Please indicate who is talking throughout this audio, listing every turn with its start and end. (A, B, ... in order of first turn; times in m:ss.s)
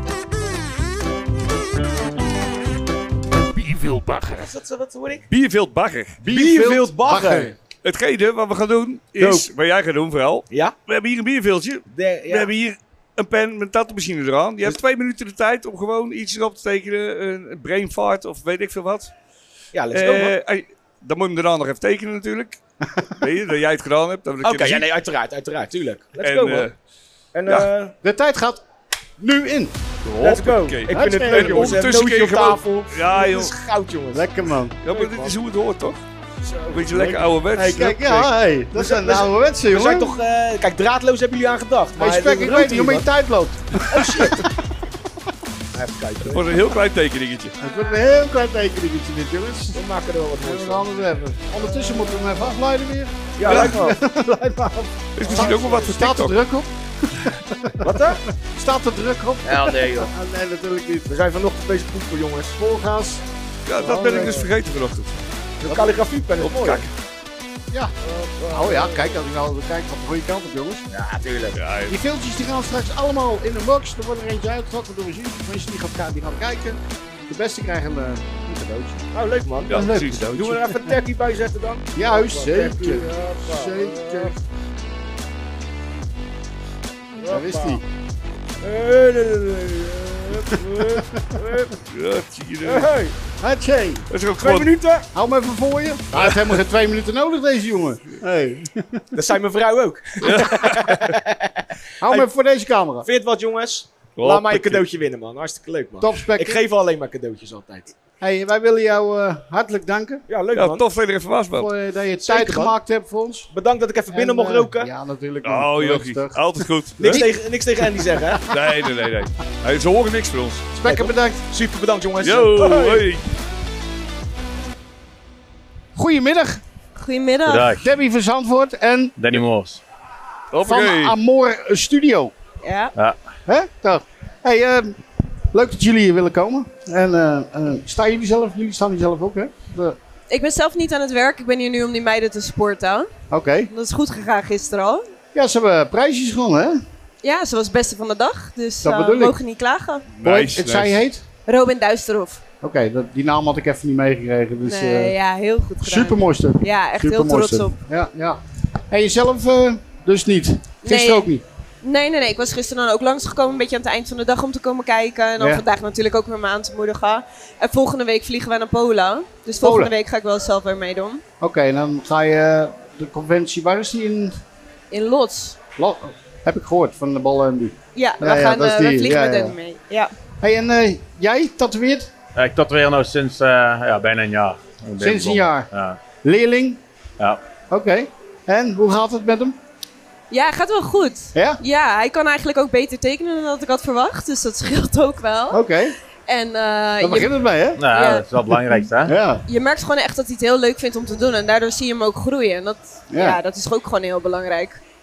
0:03.7-0:04.4 A
0:04.3-0:05.2 B
0:05.3-0:06.2 A
0:06.2-0:07.5 C
0:06.2-0:07.5 B
0:07.8-0:19.1 A
0:09.2-0:09.5 B
0:10.5-0:10.7 B
0:11.9-0:12.5 B
0:19.7-0:20.4 B
0:19.9-0:22.6 A
0:23.2-0:24.9 A
0:24.4-0:26.7 B
0:26.2-0:26.7 A
0:27.3-0:28.0 B
0:28.0-0:28.6 C
0:29.2-0:29.7 C
0:30.0-0:33.5 A
0:30.2-0:34.3 B
0:30.9-0:31.8 C
0:34.1-0:34.8 C
0:34.8-0:36.0 A
0:34.8-0:35.4 B
0:36.4-0:37.1 B
0:36.7-0:38.3 A
0:37.0-0:40.1 C
0:38.7-0:43.0 B
0:42.0-0:44.4 C
0:43.9-0:44.4 B
0:45.7-0:46.5 B
0:46.3-0:47.5 A
0:47.6-0:49.8 C
0:49.7-0:50.9 B
0:50.4-1:01.1 C
0:53.4-0:54.0 B
0:53.4-0:53.8 A
0:55.2-0:56.3 A
0:55.2-0:55.9 B
0:57.8-0:58.2 B
0:59.6-1:00.1 B
1:01.1-1:02.6 B
1:02.6-1:03.2 C
1:03.7-1:05.2 A
1:03.8-1:04.5 B
1:03.8-1:04.3 C
1:05.6-1:06.9 B
1:05.7-1:05.9 C
1:06.4-1:06.8 A
1:08.0-1:09.2 B
1:08.5-1:10.8 C
1:10.9-1:11.6 B
1:11.5-1:12.0 A
1:11.9-1:19.0 C
1:19.1-1:24.3 B
1:19.7-1:20.6 A
1:19.7-1:20.8 C
1:21.9-1:24.3 C
1:27.2-1:27.8 B
1:27.3-1:27.8 C
1:28.6-1:31.7 B
1:30.9-1:31.2 C
1:31.9-1:32.9 A
1:32.6-1:33.1 B
1:33.4-1:34.0 C
1:34.1-1:34.7 A
1:34.4-1:35.0 B
1:35.1-1:39.0 C
1:39.1-1:41.5 B
1:40.2-1:41.1 A
1:42.0-1:43.0 C
1:43.0-1:47.9 B
1:44.2-1:44.8 A
1:46.0-1:46.6 C
1:48.2-1:50.2 C
1:50.3-1:50.8 B
1:50.5-1:51.7 A
1:51.6-1:53.5 C
1:52.2-1:52.7 B
1:53.5-1:54.9 B
1:54.1-1:56.5 C
1:55.4-1:57.2 A
1:57.0-1:58.5 B
1:58.5-2:00.7 A
2:00.7-2:01.4 C
2:00.8-2:03.1 B
2:02.2-2:03.2 A
2:05.9-2:06.6 C
2:07.0-2:07.7 D
2:07.4-2:07.9 E
2:07.8-2:09.2 C
2:09.2-2:09.8 E
2:10.5-2:11.2 A
2:10.6-2:12.3 C
2:12.6-2:12.9 D
2:13.5-2:15.0 C
2:15.5-2:20.0 C
2:20.3-2:23.1 D
2:23.3-2:23.7 C
2:23.7-2:25.0 D
2:25.3-2:26.8 C
2:27.2-2:30.1 D
2:28.8-2:29.4 C
2:30.2-2:31.0 A
2:30.2-2:31.2 C
2:31.4-2:32.4 D
2:32.6-2:35.1 C
2:34.6-2:37.8 D
2:35.8-2:41.4 C
2:40.8-2:41.3 D
2:41.8-2:51.2 D
2:45.4-2:45.6 C
2:49.6-2:49.9 C
2:51.4-2:54.4 C
2:54.9-2:55.6 D
2:55.8-2:59.6 C
2:57.9-3:00.1 D
3:00.4-3:02.1 C
3:02.3-3:06.0 E
3:05.0-3:05.7 C
3:06.2-3:06.8 C
3:07.7-3:09.6 C
3:10.3-3:15.6 D
3:11.3-3:11.6 C
3:15.5-3:15.9 C
3:16.2-3:17.3 D
3:17.0-3:17.8 C
3:17.8-3:19.2 E
3:17.9-3:18.2 D
3:19.0-3:19.4 C
3:19.5-3:24.8 D
3:23.1-3:23.4 C